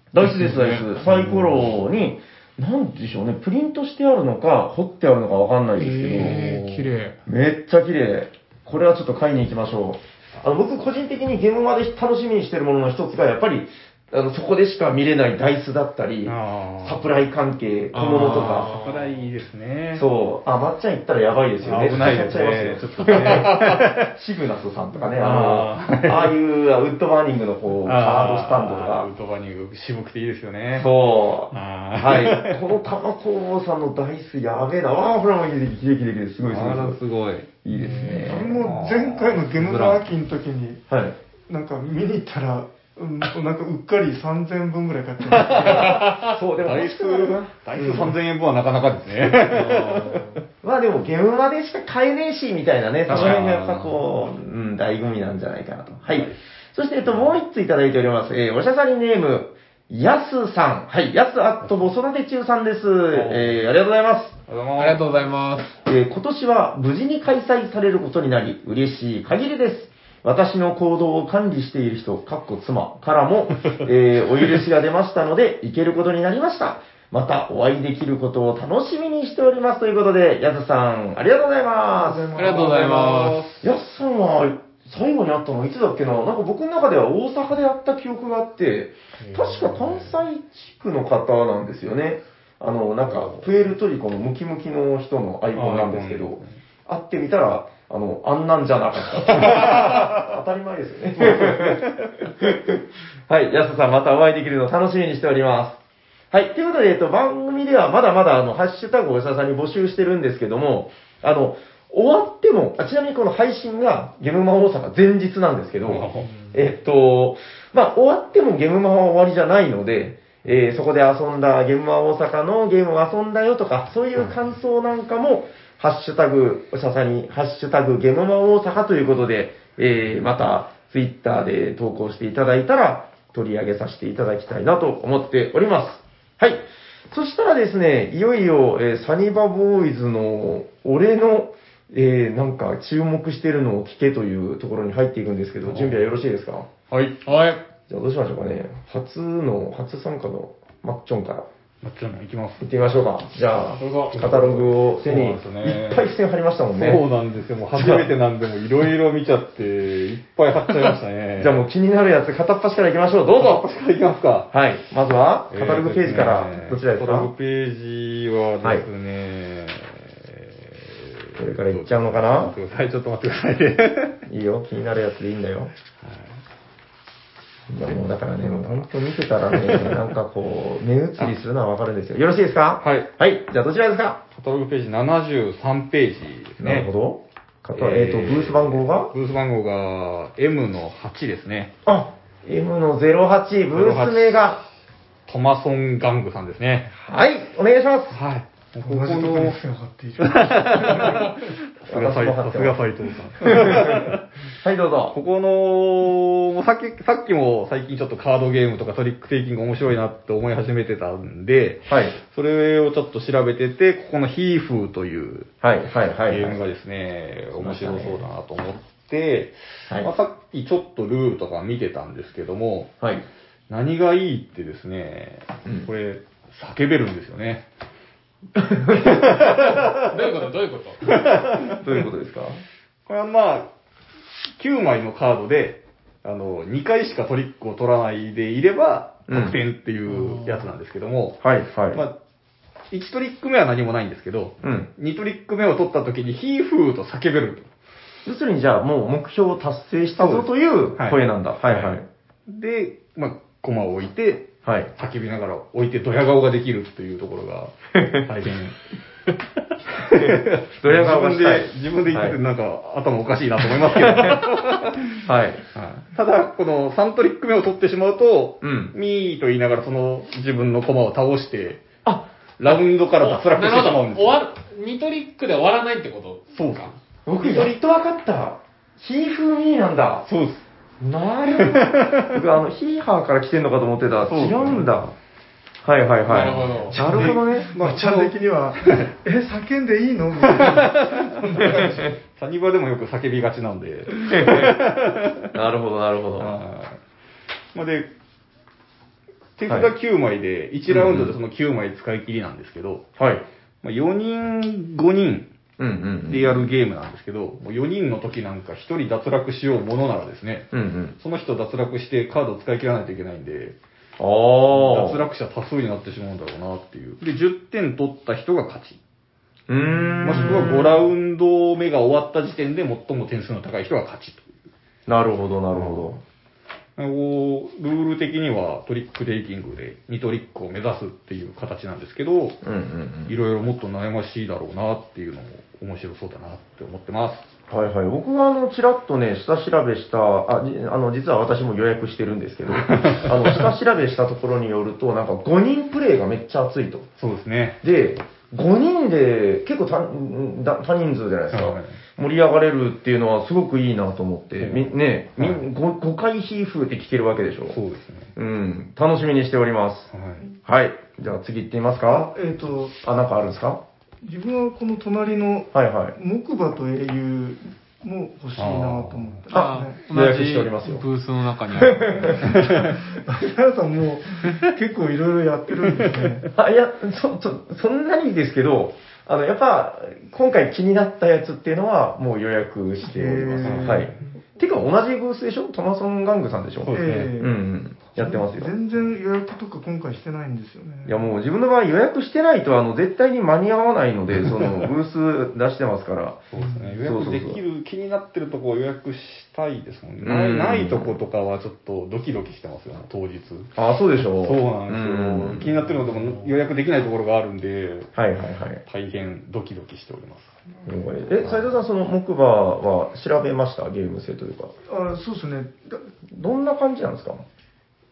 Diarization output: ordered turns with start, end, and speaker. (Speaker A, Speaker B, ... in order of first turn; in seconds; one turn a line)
Speaker A: 0.1-6.4
Speaker B: 0.2-0.9
Speaker C: 1.0-1.7
Speaker B: 5.8-7.1
Speaker C: 6.1-6.9
Speaker A: 7.2-18.7
Speaker C: 16.2-17.0
Speaker B: 17.9-19.1
Speaker C: 18.1-20.1
Speaker A: 19.9-29.1
Speaker C: 21.6-24.1
Speaker C: 25.1-26.4
Speaker C: 27.9-30.9
Speaker A: 30.7-37.0
Speaker C: 31.5-32.6
Speaker C: 36.4-40.0
Speaker A: 37.6-38.6
Speaker D: 38.2-40.8
Speaker A: 40.9-41.1
Speaker D: 41.5-45.8
Speaker C: 45.3-50.2
Speaker A: 45.6-48.1
Speaker B: 45.7-46.3
Speaker B: 49.5-50.4
Speaker A: 50.6-64.4
Speaker C: 53.1-54.0
Speaker B: 53.1-53.4
Speaker C: 56.0-56.4
Speaker C: 63.1-63.6
Speaker C: 64.5-65.2
Speaker B: 64.8-65.7
Speaker A: 65.8-82.6
Speaker D: 81.9-83.3
Speaker B: 82.3-83.5
Speaker C: 82.5-83.6
Speaker A: 83.6-105.8
Speaker C: 93.1-93.5
Speaker C: 95.5-96.5
Speaker C: 99.5-100.1
Speaker C: 101.2-102.2
Speaker A: 106.3-146.7
Speaker C: 115.9-116.3
Speaker C: 145.6-146.1
Speaker C: 146.9-147.2
Speaker B: 147.2-147.6
Speaker A: 147.9-151.5
Speaker C: 151.8-152.7
Speaker A: 152.6-157.1
Speaker B: 153.8-154.2
Speaker C: 154.1-156.1
Speaker C: 156.8-161.6
Speaker A: 157.7-158.1
Speaker A: 161.4-163.6
Speaker C: 163.4-164.5
Speaker A: 164.5-167.3
Speaker C: 165.5-174.2
Speaker A: 171.4-172.6
Speaker A: 174.3-175.7
Speaker C: 176.0-176.4
Speaker A: 177.7-184.2
Speaker C: 178.4-178.8
Speaker C: 179.6-180.0
Speaker C: 182.8-183.1
Speaker C: 184.3-186.9
Speaker A: 186.6-189.1
Speaker C: 187.7-191.7
Speaker A: 191.8-194.6
Speaker C: 193.7-194.6
Speaker C: 195.3-196.9
Speaker A: 196.9-198.2
Speaker C: 198.1-199.6
Speaker D: 198.8-201.3
Speaker C: 200.2-204.2
Speaker A: 201.8-202.8
Speaker A: 203.4-205.2
Speaker C: 205.1-215.5
Speaker A: 211.9-212.2
Speaker A: 215.6-216.6
Speaker C: 216.3-222.9
Speaker A: 217.6-218.2
Speaker C: 223.7-227.7
Speaker A: 228.6-229.3
Speaker C: 228.9-230.3
Speaker B: 229.3-231.1
Speaker C: 231.1-232.0
Speaker A: 231.8-232.6
Speaker C: 233.1-233.7
Speaker C: 234.6-241.4
Speaker A: 239.3-239.6
Speaker B: 240.1-240.7
Speaker A: 241.4-242.0
Speaker C: 242.9-247.7
Speaker A: 244.6-244.9
Speaker A: 248.2-252.1
Speaker C: 250.2-250.5
Speaker C: 251.0-258.8
Speaker A: 254.6-254.9
Speaker A: 257.9-258.2
Speaker C: 259.9-265.2
Speaker A: 260.1-262.4
Speaker A: 263.9-264.4
Speaker A: 265.2-265.6
Speaker C: 265.7-271.9
Speaker A: 268.6-268.9
Speaker C: 272.6-274.4
Speaker B: 273.2-276.9
Speaker C: 276.5-277.6
Speaker A: 277.2-280.3
Speaker C: 280.3-280.6
Speaker A: 281.0-285.1
Speaker C: 281.6-282.4
Speaker C: 284.2-284.9
Speaker A: 285.8-287.7
Speaker B: 286.3-287.0
Speaker C: 286.3-289.1
Speaker D: 286.9-292.1
Speaker C: 290.5-295.5
Speaker A: 294.2-294.8
Speaker A: 295.5-296.5
Speaker C: 296.4-297.0
Speaker C: 297.7-298.1
Speaker C: 299.6-303.1
Speaker A: 300.9-301.4
Speaker A: 303.2-303.4
Speaker C: 303.8-305.5
Speaker A: 305.8-306.6
Speaker C: 306.3-313.8
Speaker A: 310.7-311.1
Speaker A: 314.2-315.2
Speaker C: 314.7-319.0
Speaker A: 319.7-321.0
Speaker C: 320.2-324.5
Speaker A: 325.1-326.2
Speaker C: 325.7-326.1
Speaker C: 326.9-332.6
Speaker A: 332.6-333.4
Speaker C: 333.3-337.5
Speaker A: 337.7-347.1
Speaker C: 342.8-343.6
Speaker C: 347.2-347.8
Speaker A: 347.8-357.8
Speaker C: 351.5-352.0
Speaker C: 354.6-355.6
Speaker C: 357.7-358.3
Speaker A: 358.4-360.1
Speaker C: 360.1-360.5
Speaker A: 360.6-362.3
Speaker D: 362.1-362.9
Speaker A: 363.0-363.8
Speaker D: 364.2-370.0
Speaker A: 365.7-366.1
Speaker C: 368.6-369.4
Speaker A: 369.5-371.1
Speaker B: 369.5-372.4
Speaker A: 371.7-372.6
Speaker D: 372.1-376.5
Speaker C: 372.5-372.9
Speaker A: 376.5-388.7
Speaker D: 383.0-384.3
Speaker C: 383.6-384.2
Speaker C: 386.8-387.3
Speaker D: 386.9-387.6
Speaker D: 388.1-391.2
Speaker A: 391.1-396.5
Speaker C: 396.5-403.7
Speaker D: 396.6-396.9
Speaker A: 397.0-397.6
Speaker A: 400.2-401.2
Speaker A: 403.8-405.8
Speaker C: 404.2-408.1
Speaker A: 408.1-408.8
Speaker C: 408.9-410.6
Speaker A: 410.9-414.7
Speaker D: 414.9-416.1
Speaker A: 416.3-417.4